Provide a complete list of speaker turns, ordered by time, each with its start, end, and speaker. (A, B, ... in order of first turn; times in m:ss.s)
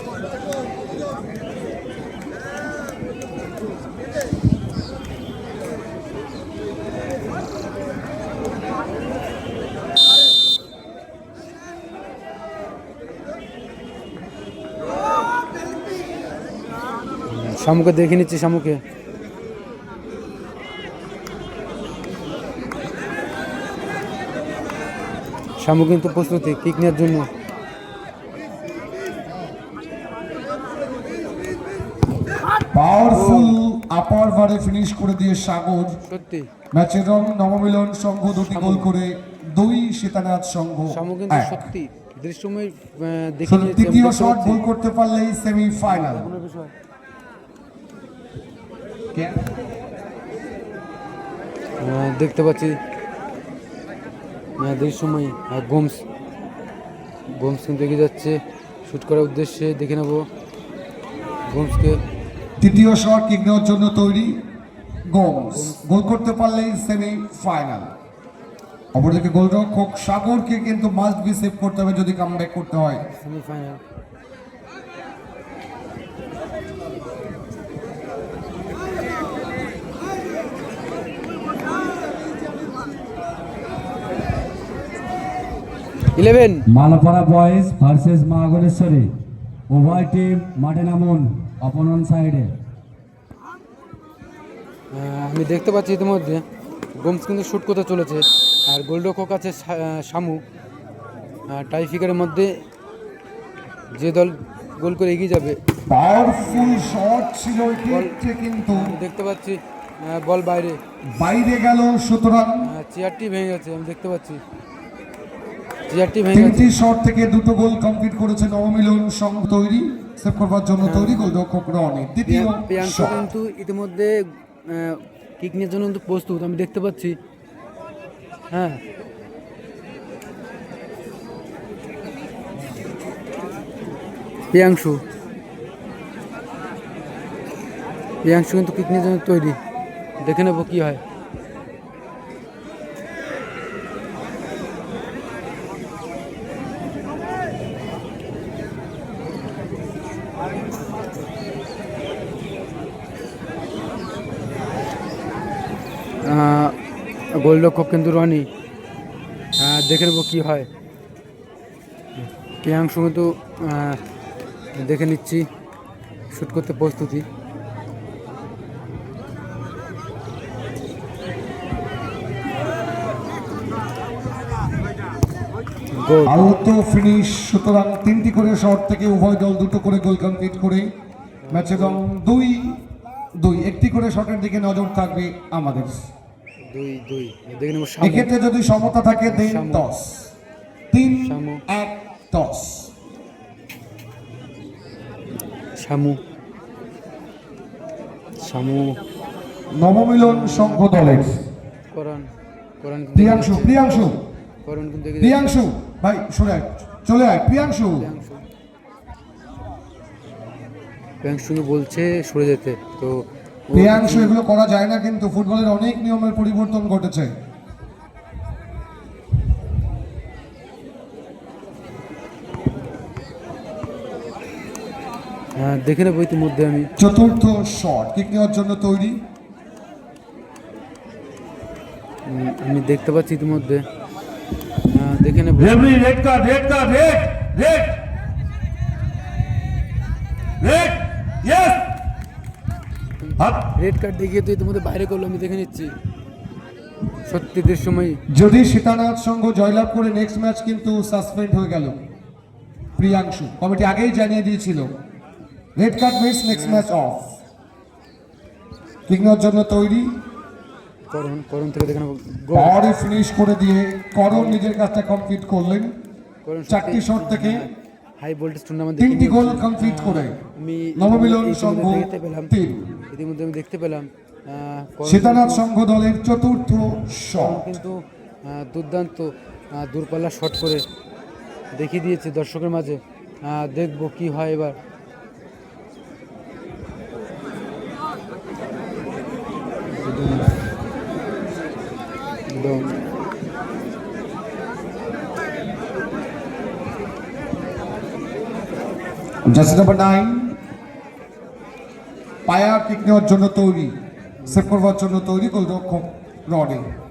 0:17.3-0:18.8 A
0:25.6-0:27.3 A
0:32.7-0:36.0 B
0:33.1-0:33.6 A
0:36.1-0:36.5 A
0:36.7-0:41.7 B
0:38.4-0:38.9 A
0:40.9-0:44.6 A
0:43.4-0:46.3 B
0:45.9-0:46.7 A
0:49.1-0:49.5 B
0:51.8-0:52.8 A
0:54.6-0:56.0 A
0:57.3-1:00.2 A
1:01.5-1:02.0 A
1:02.6-1:04.4 B
1:05.1-1:07.9 B
1:05.5-1:05.8 A
1:08.9-1:13.0 B
1:13.2-1:13.8 A
1:26.2-1:26.6 A
1:26.7-1:29.1 C
1:29.7-1:32.5 C
1:34.9-1:36.4 A
1:37.0-1:40.4 A
1:41.5-1:42.5 A
1:43.9-1:45.6 A
1:45.9-1:49.0 B
1:46.4-1:47.0 A
1:47.8-1:48.2 A
1:48.7-1:50.8 A
1:51.1-1:52.7 B
1:52.6-1:54.4 A
1:55.9-1:56.7 A
1:56.3-2:03.3 B
2:00.8-2:01.4 A
2:02.2-2:04.1 A
2:04.7-2:07.2 A
2:08.5-2:08.8 A
2:14.5-2:15.0 A
2:18.2-2:19.6 A
2:20.2-2:21.0 A
2:36.2-2:36.8 A
2:37.3-2:38.5 A
2:39.6-2:40.7 A
2:42.6-2:44.0 A
2:44.8-2:45.5 A
2:46.3-2:47.2 A
2:55.9-2:56.4 A
2:56.2-3:00.9 B
3:01.5-3:02.0 A
3:01.5-3:02.8 B
3:03.4-3:06.1 B
3:06.7-3:08.3 A
3:08.0-3:10.3 B
3:09.3-3:09.9 A
3:10.9-3:12.9 B
3:11.1-3:11.6 A
3:15.8-3:16.2 A
3:18.4-3:19.0 A
3:19.7-3:21.4 B
3:20.2-3:21.0 A
3:21.9-3:23.9 A
3:23.1-3:24.2 B
3:24.6-3:25.6 A
3:25.2-3:28.1 B
3:28.0-3:28.4 A
3:31.2-3:34.4 A
3:33.7-3:37.3 B
3:45.6-3:46.9 A
3:47.0-3:49.2 B
3:52.3-3:53.8 A
3:54.9-3:56.0 A
3:55.6-3:58.0 D
4:00.6-4:01.8 D
4:03.2-4:05.9 A
4:07.3-4:08.2 A
4:08.3-4:12.0 B
4:13.0-4:14.9 B
4:15.8-4:17.4 B
4:16.5-4:16.9 A
4:19.1-4:20.2 B
4:21.1-4:22.7 A
4:22.5-4:25.9 B
4:24.3-4:24.6 A
4:26.4-4:32.5 A
4:26.7-4:27.7 B
4:29.0-4:30.4 B
4:31.0-4:33.1 B
4:33.1-4:35.6 A
4:35.0-4:37.7 B
4:37.4-4:40.8 A
4:41.7-4:44.8 A
4:50.0-4:50.6 A
4:52.5-4:53.0 A
4:59.5-5:00.6 B
5:02.5-5:04.0 B
5:04.4-5:04.7 A
5:04.5-5:06.9 B